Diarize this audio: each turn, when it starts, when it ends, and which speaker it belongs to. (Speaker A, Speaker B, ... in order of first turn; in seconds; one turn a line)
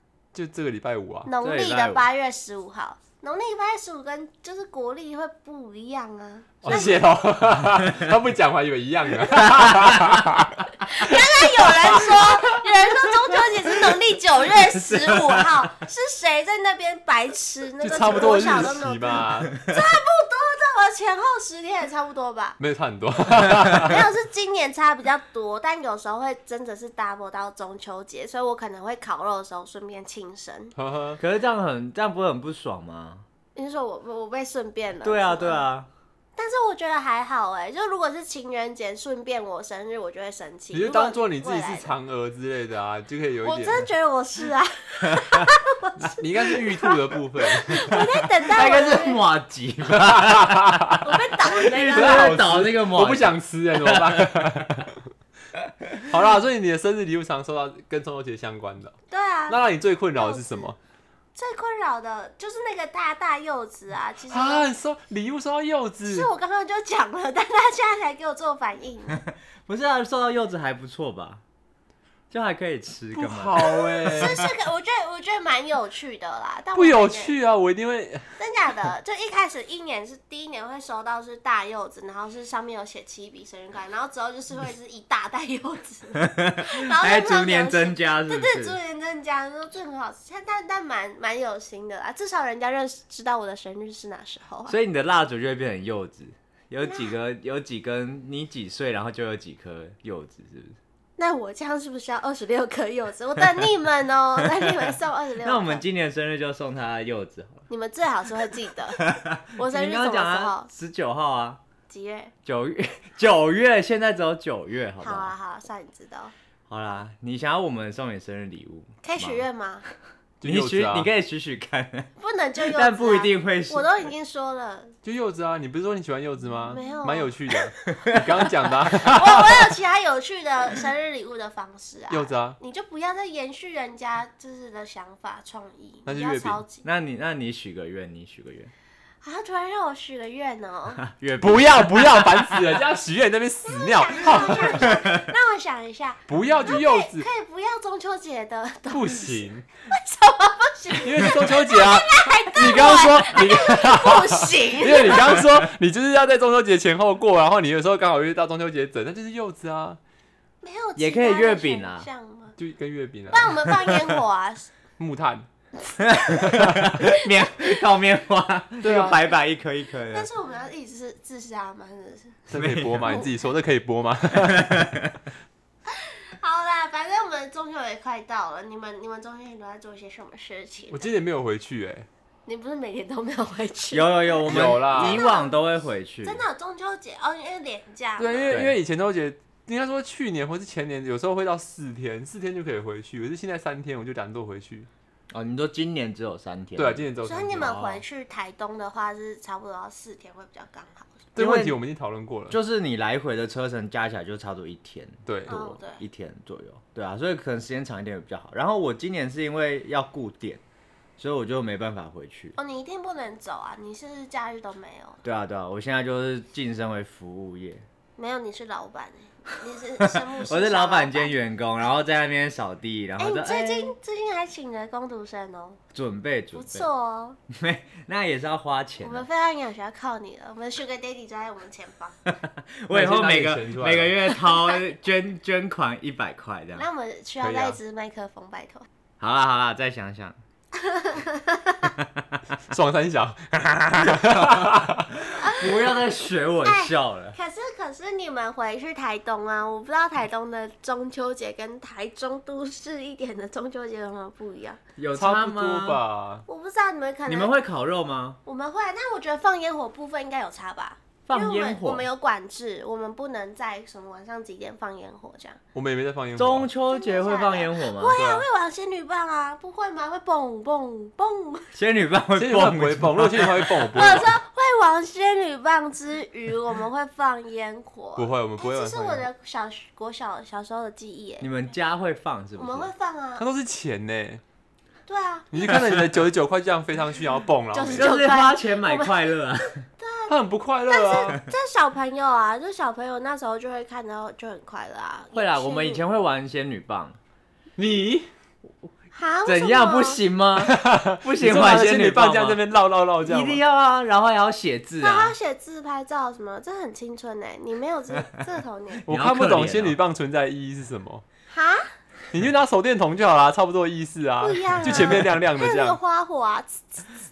Speaker A: 0.3-1.3
Speaker B: 1.2-7.0
Speaker C: 1.4-2.0
Speaker A: 6.6-12.5
Speaker C: 6.7-7.0
Speaker C: 9.3-10.2
Speaker B: 10.8-22.6
Speaker C: 11.9-12.3
Speaker C: 14.5-15.7
Speaker A: 17.8-19.5
Speaker C: 19.5-19.8
Speaker A: 22.6-24.1
Speaker B: 23.8-30.7
Speaker A: 30.8-31.2
Speaker C: 31.2-33.2
Speaker B: 33.5-35.6
Speaker C: 35.0-35.9
Speaker B: 36.4-41.9
Speaker A: 40.7-43.8
Speaker B: 43.4-49.2
Speaker C: 45.1-45.5
Speaker A: 46.0-47.9
Speaker C: 47.9-54.7
Speaker A: 50.0-51.0
Speaker B: 51.0-52.4
Speaker A: 51.9-55.0
Speaker C: 55.5-56.1
Speaker A: 56.0-58.9
Speaker B: 59.1-59.6
Speaker A: 59.5-60.8
Speaker B: 60.1-60.7
Speaker B: 61.4-64.7
Speaker A: 64.3-66.3
Speaker B: 66.0-69.2
Speaker C: 69.7-71.4
Speaker C: 72.3-74.5
Speaker A: 73.1-74.4
Speaker B: 73.6-77.3
Speaker A: 76.7-78.4
Speaker B: 78.4-94.8
Speaker C: 86.1-88.8
Speaker C: 94.7-100.8
Speaker B: 96.8-97.1
Speaker B: 101.2-105.8
Speaker C: 104.4-104.8
Speaker C: 105.4-107.7
Speaker B: 107.7-110.7
Speaker C: 109.0-111.6
Speaker B: 111.9-112.3
Speaker C: 112.4-115.3
Speaker B: 115.0-116.3
Speaker C: 116.7-119.4
Speaker B: 119.0-119.8
Speaker A: 120.4-121.1
Speaker C: 120.4-123.9
Speaker B: 122.2-124.9
Speaker A: 125.0-129.8
Speaker B: 126.7-127.6
Speaker C: 128.0-128.2
Speaker B: 128.9-136.8
Speaker A: 132.1-132.6
Speaker A: 136.1-136.6
Speaker C: 136.8-138.7
Speaker B: 139.2-141.0
Speaker C: 141.0-142.8
Speaker A: 141.4-144.9
Speaker B: 143.6-155.3
Speaker C: 144.8-145.2
Speaker A: 146.3-147.3
Speaker A: 148.9-149.7
Speaker A: 151.0-160.0
Speaker C: 155.2-155.7
Speaker B: 160.6-162.5
Speaker C: 160.9-162.1
Speaker A: 162.6-163.6
Speaker B: 163.3-164.7
Speaker A: 165.0-165.5
Speaker C: 166.0-170.3
Speaker A: 166.4-166.9
Speaker A: 168.8-169.2
Speaker B: 170.1-172.4
Speaker A: 172.5-174.9
Speaker C: 172.5-173.2
Speaker C: 174.3-175.2
Speaker B: 175.9-181.1
Speaker A: 180.9-182.1
Speaker B: 182.4-185.6
Speaker C: 183.9-186.4
Speaker A: 184.4-185.2
Speaker B: 186.2-188.6
Speaker A: 188.2-194.9
Speaker C: 188.5-188.8
Speaker C: 195.3-198.0
Speaker A: 196.8-197.8
Speaker B: 197.2-201.2
Speaker A: 201.3-202.6
Speaker C: 201.4-201.8
Speaker C: 202.5-210.6
Speaker A: 205.2-205.6
Speaker B: 205.5-206.0
Speaker C: 211.2-212.5
Speaker B: 212.6-215.2
Speaker C: 215.2-217.8
Speaker B: 218.2-221.3
Speaker C: 220.0-223.9
Speaker B: 223.2-225.8
Speaker C: 225.9-226.9
Speaker B: 226.5-227.4
Speaker C: 227.5-229.3
Speaker B: 229.0-232.2
Speaker C: 232.4-236.8
Speaker A: 232.9-234.2
Speaker B: 234.4-234.8
Speaker B: 236.8-238.9
Speaker A: 237.4-237.8
Speaker C: 239.2-240.3
Speaker B: 240.8-241.9
Speaker C: 241.9-242.4
Speaker A: 242.7-245.2
Speaker C: 244.0-244.7
Speaker C: 245.2-247.3
Speaker B: 245.3-245.9
Speaker B: 246.6-254.8
Speaker C: 255.0-256.0
Speaker A: 255.1-256.4
Speaker B: 256.5-257.5
Speaker C: 257.3-258.4
Speaker B: 258.4-265.6
Speaker C: 261.2-262.1
Speaker A: 265.7-266.7
Speaker C: 266.4-268.2
Speaker B: 266.9-271.7
Speaker A: 268.1-268.4
Speaker C: 271.7-274.1
Speaker A: 272.4-274.4
Speaker B: 273.9-281.5
Speaker A: 278.2-279.3
Speaker C: 281.4-282.9
Speaker B: 282.6-283.4
Speaker A: 283.4-284.4
Speaker B: 285.1-285.8
Speaker A: 285.5-288.1
Speaker C: 285.6-286.1
Speaker B: 287.7-289.3
Speaker C: 287.8-289.8
Speaker B: 290.0-290.4
Speaker A: 290.3-291.4
Speaker B: 290.9-296.0
Speaker C: 295.3-297.2
Speaker A: 297.8-298.3
Speaker B: 299.1-300.2
Speaker C: 299.4-302.6
Speaker A: 300.6-303.6
Speaker C: 303.2-305.3
Speaker B: 305.0-309.0
Speaker C: 309.1-310.0
Speaker A: 309.1-311.2
Speaker B: 311.5-311.9
Speaker A: 312.3-316.0
Speaker B: 314.4-317.1
Speaker C: 314.8-315.3